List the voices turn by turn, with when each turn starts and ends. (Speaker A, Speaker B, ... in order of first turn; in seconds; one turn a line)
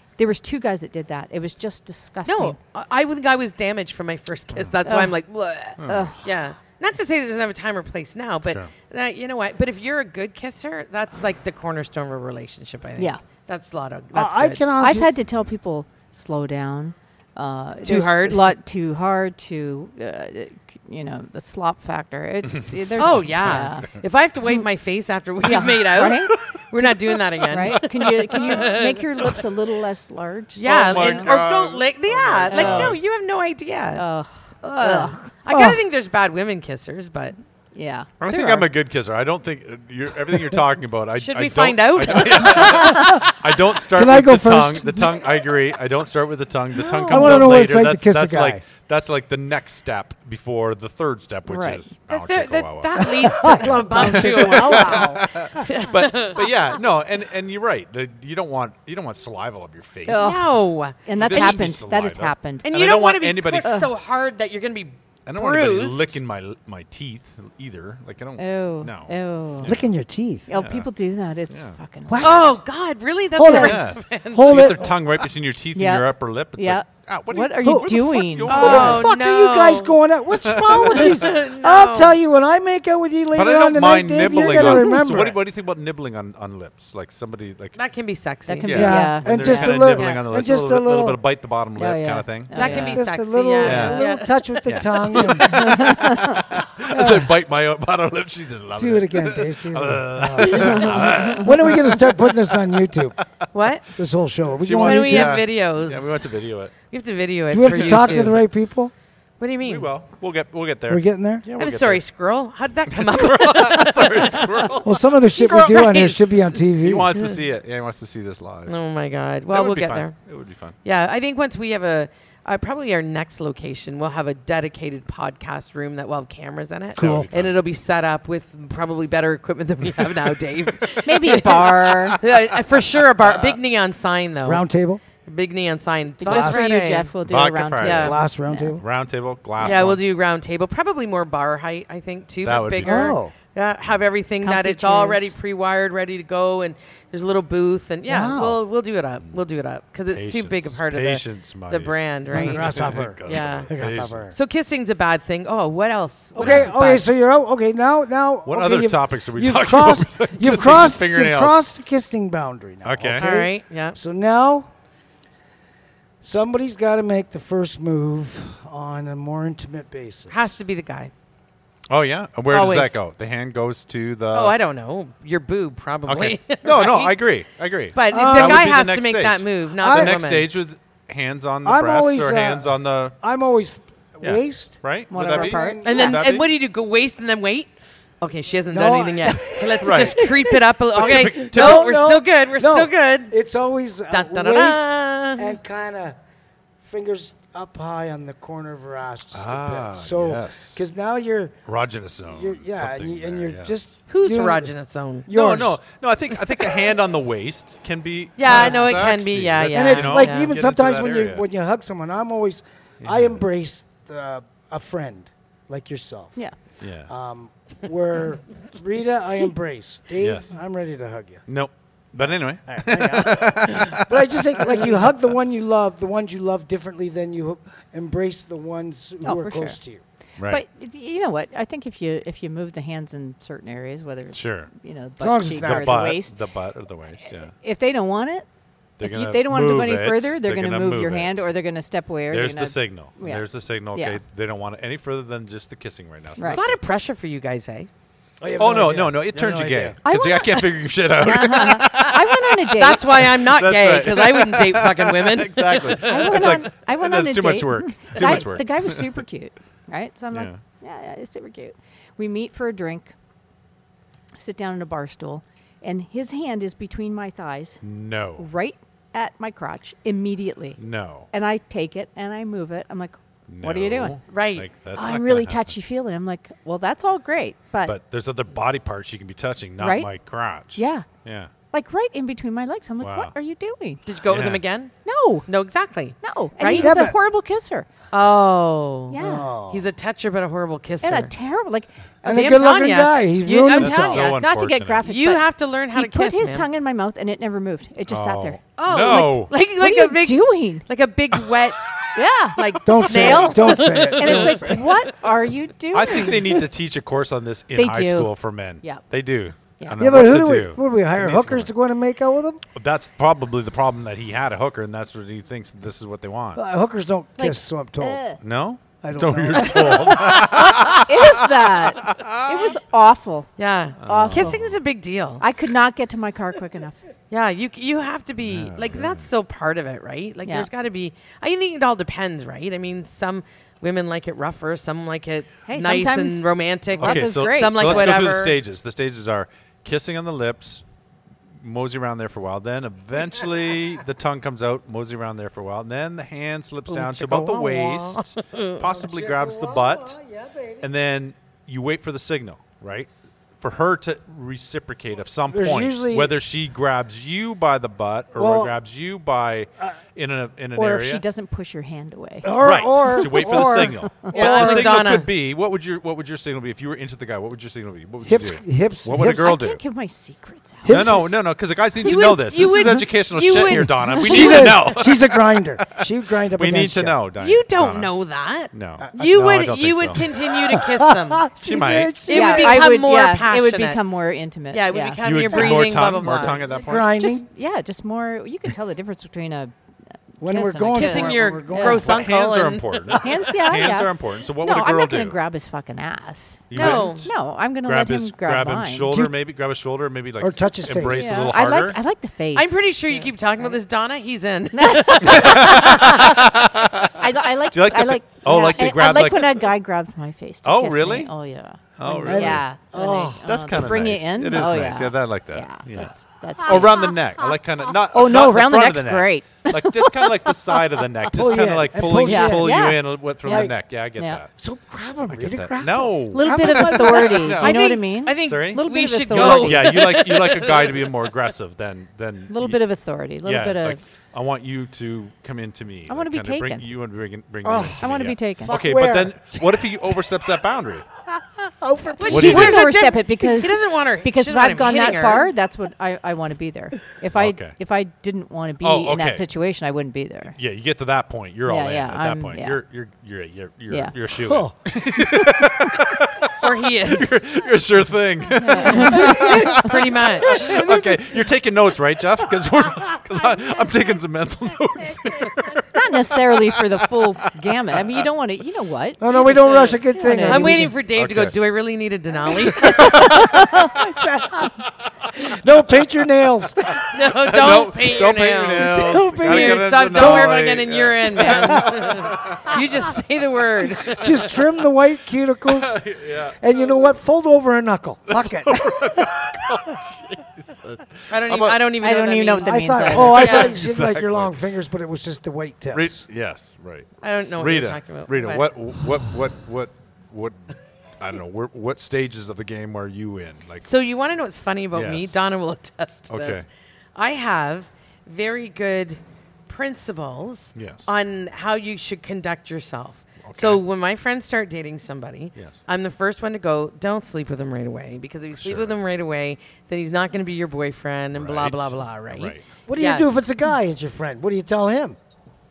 Speaker A: 0.2-2.6
Speaker B: 2.3-14.6
Speaker A: 4.8-5.1
Speaker C: 5.8-6.1
Speaker A: 5.8-6.2
Speaker D: 14.1-15.1
Speaker A: 14.8-23.9
Speaker B: 17.8-18.5
Speaker C: 22.5-24.0
Speaker B: 23.0-29.4
Speaker A: 25.4-26.9
Speaker A: 27.5-31.4
Speaker C: 27.6-28.6
Speaker B: 30.6-34.0
Speaker C: 30.7-33.0
Speaker A: 32.5-33.0
Speaker A: 34.0-35.7
Speaker B: 34.6-37.4
Speaker D: 35.5-35.8
Speaker A: 37.7-38.7
Speaker C: 38.2-60.5
Speaker B: 41.2-43.3
Speaker D: 43.9-45.2
Speaker A: 47.0-47.4
Speaker D: 47.0-48.6
Speaker B: 47.1-47.4
Speaker A: 51.5-51.8
Speaker B: 52.1-56.5
Speaker D: 53.0-55.7
Speaker A: 60.1-60.5
Speaker B: 60.1-61.6
Speaker A: 61.0-62.7
Speaker C: 61.2-63.8
Speaker B: 62.6-66.1
Speaker A: 63.6-63.9
Speaker C: 65.3-69.8
Speaker A: 68.4-69.8
Speaker D: 69.6-70.5
Speaker A: 70.5-72.6
Speaker C: 70.5-70.9
Speaker C: 71.5-71.8
Speaker D: 72.1-72.6
Speaker B: 72.2-75.2
Speaker D: 73.4-74.9
Speaker C: 73.5-79.1
Speaker A: 75.7-79.0
Speaker D: 77.6-77.9
Speaker B: 78.5-80.0
Speaker D: 78.5-85.4
Speaker C: 80.4-81.3
Speaker B: 80.6-82.2
Speaker C: 83.3-87.8
Speaker A: 84.5-85.1
Speaker B: 87.8-89.1
Speaker A: 88.5-89.8
Speaker C: 88.7-92.8
Speaker D: 88.7-91.2
Speaker B: 89.8-90.3
Speaker A: 91.8-93.0
Speaker B: 92.5-95.4
Speaker D: 92.6-95.8
Speaker A: 93.6-93.9
Speaker C: 93.6-94.0
Speaker C: 94.7-103.1
Speaker A: 95.4-96.4
Speaker D: 96.9-97.3
Speaker D: 98.8-103.2
Speaker A: 100.7-101.3
Speaker B: 103.5-103.9
Speaker D: 104.0-105.4
Speaker C: 104.5-106.7
Speaker B: 104.8-106.3
Speaker B: 106.9-108.4
Speaker D: 107.5-108.9
Speaker C: 107.6-108.4
Speaker B: 109.4-109.9
Speaker C: 109.6-112.0
Speaker D: 110.9-111.5
Speaker B: 111.6-116.2
Speaker C: 112.9-118.8
Speaker D: 114.8-117.1
Speaker B: 118.7-120.2
Speaker C: 119.5-120.8
Speaker B: 120.8-134.7
Speaker C: 127.0-127.6
Speaker D: 127.0-127.3
Speaker A: 131.1-132.2
Speaker C: 131.4-132.4
Speaker D: 134.4-135.0
Speaker B: 135.3-137.1
Speaker A: 136.2-138.8
Speaker D: 136.3-136.7
Speaker C: 137.2-138.2
Speaker B: 137.8-138.2
Speaker D: 138.0-138.8
Speaker C: 138.8-140.0
Speaker B: 139.6-157.1
Speaker C: 142.4-143.2
Speaker D: 142.8-143.3
Speaker A: 144.4-145.3
Speaker D: 148.1-148.6
Speaker C: 150.1-154.2
Speaker D: 152.3-154.3
Speaker D: 156.3-164.7
Speaker C: 156.4-156.7
Speaker C: 158.5-161.6
Speaker C: 162.8-163.3
Speaker B: 163.2-164.0
Speaker D: 166.2-170.6
Speaker B: 170.3-171.1
Speaker C: 171.9-174.6
Speaker B: 172.5-173.0
Speaker B: 174.3-177.3
Speaker C: 176.1-183.2
Speaker B: 177.9-180.5
Speaker D: 178.1-178.8
Speaker D: 179.8-180.2
Speaker D: 181.6-186.0
Speaker C: 184.2-186.5
Speaker A: 185.1-186.2
Speaker B: 185.8-193.3
Speaker D: 188.7-196.2
Speaker C: 189.8-190.3
Speaker C: 190.9-192.0
Speaker B: 194.1-195.6
Speaker D: 196.8-201.6
Speaker C: 199.3-200.8
Speaker C: 201.7-203.8
Speaker D: 202.3-204.7
Speaker B: 204.1-205.3
Speaker D: 205.3-205.8
Speaker C: 205.3-211.4
Speaker B: 208.4-210.5
Speaker D: 208.5-209.0
Speaker D: 209.7-216.4
Speaker C: 213.0-213.4
Speaker C: 216.8-217.1
Speaker D: 217.1-221.4
Speaker C: 220.2-220.6
Speaker C: 221.5-225.1
Speaker D: 222.2-230.0
Speaker A: 229.2-229.8
Speaker A: 230.4-236.3
Speaker C: 234.3-234.7
Speaker D: 235.2-236.1
Speaker C: 235.6-237.5
Speaker A: 237.5-238.5
Speaker C: 239.0-241.5
Speaker A: 239.0-244.2
Speaker C: 242.3-246.8
Speaker B: 246.5-247.9
Speaker D: 248.4-250.0
Speaker C: 248.6-259.1
Speaker A: 250.1-253.2
Speaker B: 251.8-252.2
Speaker B: 252.7-256.6
Speaker A: 256.0-263.1
Speaker C: 260.3-260.6
Speaker A: 264.4-267.8
Speaker C: 267.8-268.5
Speaker A: 268.4-270.8
Speaker C: 270.8-271.3
Speaker A: 271.3-274.2
Speaker C: 273.5-275.8
Speaker B: 274.3-274.7
Speaker A: 274.9-278.0
Speaker C: 277.9-281.5
Speaker A: 279.8-280.1
Speaker A: 280.8-281.1
Speaker A: 281.7-284.0
Speaker C: 283.0-283.3
Speaker B: 284.1-284.9
Speaker C: 284.2-284.6
Speaker A: 285.1-285.5
Speaker B: 285.5-287.0
Speaker A: 286.2-287.9
Speaker D: 286.6-287.2
Speaker B: 288.1-291.3
Speaker A: 289.1-289.5
Speaker D: 289.2-289.9
Speaker A: 291.0-292.6
Speaker D: 292.2-294.3
Speaker B: 292.3-294.4
Speaker C: 293.7-295.0
Speaker A: 294.2-298.6
Speaker B: 295.0-296.7
Speaker C: 298.1-299.5
Speaker B: 298.8-302.0
Speaker A: 299.8-300.9
Speaker A: 302.1-303.5
Speaker B: 302.5-305.0
Speaker D: 302.9-304.9
Speaker A: 304.2-306.6
Speaker C: 305.9-311.7
Speaker A: 307.8-309.0
Speaker D: 310.0-312.6
Speaker C: 312.8-316.6
Speaker D: 316.6-318.2
Speaker A: 317.4-318.4
Speaker C: 318.4-322.7
Speaker D: 319.0-320.5
Speaker A: 320.3-323.5
Speaker B: 323.6-325.4
Speaker A: 324.0-324.6
Speaker C: 324.0-324.8
Speaker A: 325.4-327.0
Speaker B: 327.3-338.6
Speaker C: 328.4-329.3
Speaker A: 335.7-338.2
Speaker C: 337.0-340.8
Speaker C: 341.6-350.2
Speaker B: 346.9-348.8
Speaker D: 348.9-350.9
Speaker C: 350.8-361.2
Speaker D: 355.5-356.3
Speaker D: 358.4-358.7
Speaker A: 360.8-363.8
Speaker D: 362.4-365.0
Speaker C: 362.6-369.8
Speaker B: 364.3-365.3
Speaker D: 368.2-369.6
Speaker A: 369.2-371.3
Speaker D: 370.8-371.4
Speaker C: 370.9-378.1
Speaker B: 372.0-374.9
Speaker D: 373.5-377.2
Speaker B: 377.4-381.5
Speaker C: 378.7-380.2
Speaker D: 380.6-382.9
Speaker C: 381.6-382.2
Speaker B: 382.2-384.0
Speaker A: 382.3-385.2
Speaker B: 384.7-386.6
Speaker C: 385.2-387.1
Speaker D: 386.5-387.5
Speaker A: 387.1-389.7
Speaker A: 390.4-392.0
Speaker D: 390.4-392.3
Speaker B: 390.9-393.4
Speaker C: 392.0-395.4
Speaker A: 393.2-399.3
Speaker C: 396.7-402.0
Speaker B: 396.7-397.3
Speaker D: 400.4-401.5
Speaker A: 401.1-403.8
Speaker B: 402.5-406.4
Speaker A: 404.7-406.4
Speaker C: 405.3-409.7
Speaker A: 407.2-417.2
Speaker C: 410.6-411.3
Speaker C: 412.0-424.5
Speaker D: 412.3-413.4
Speaker A: 417.9-421.6
Speaker D: 421.3-423.8
Speaker A: 422.2-424.4
Speaker D: 424.6-427.6
Speaker C: 425.3-427.9
Speaker A: 426.3-430.2
Speaker B: 427.4-431.3
Speaker C: 428.4-432.8
Speaker A: 432.5-434.0
Speaker C: 433.4-441.1
Speaker A: 436.1-436.8
Speaker D: 437.6-440.0
Speaker A: 438.0-438.8
Speaker D: 441.3-442.6
Speaker B: 442.2-445.5
Speaker A: 442.2-450.6
Speaker C: 442.3-442.9
Speaker C: 447.4-447.8
Speaker C: 448.8-449.4
Speaker C: 450.6-467.1
Speaker A: 451.7-452.8
Speaker A: 453.9-454.1
Speaker D: 454.4-454.7
Speaker B: 456.6-457.4
Speaker A: 458.6-459.8
Speaker B: 458.9-460.8
Speaker D: 459.1-459.8
Speaker D: 460.4-461.2
Speaker A: 465.9-470.9
Speaker D: 469.2-471.0
Speaker B: 469.4-473.9
Speaker C: 471.1-471.6
Speaker C: 472.9-473.4
Speaker D: 473.0-474.8
Speaker D: 475.3-477.0
Speaker C: 477.0-482.8
Speaker B: 477.0-484.6
Speaker D: 478.8-480.6
Speaker D: 484.1-486.0
Speaker C: 485.7-486.6
Speaker D: 486.6-489.2
Speaker C: 488.3-491.8
Speaker B: 491.3-493.8
Speaker A: 492.0-493.5
Speaker D: 492.6-496.3
Speaker C: 493.2-494.5
Speaker C: 495.9-503.9
Speaker B: 497.2-498.7
Speaker B: 503.8-523.5
Speaker C: 504.9-505.4
Speaker C: 506.3-506.7
Speaker C: 510.8-511.1
Speaker C: 513.4-513.8
Speaker C: 518.6-519.0
Speaker C: 521.4-522.6
Speaker D: 522.9-525.2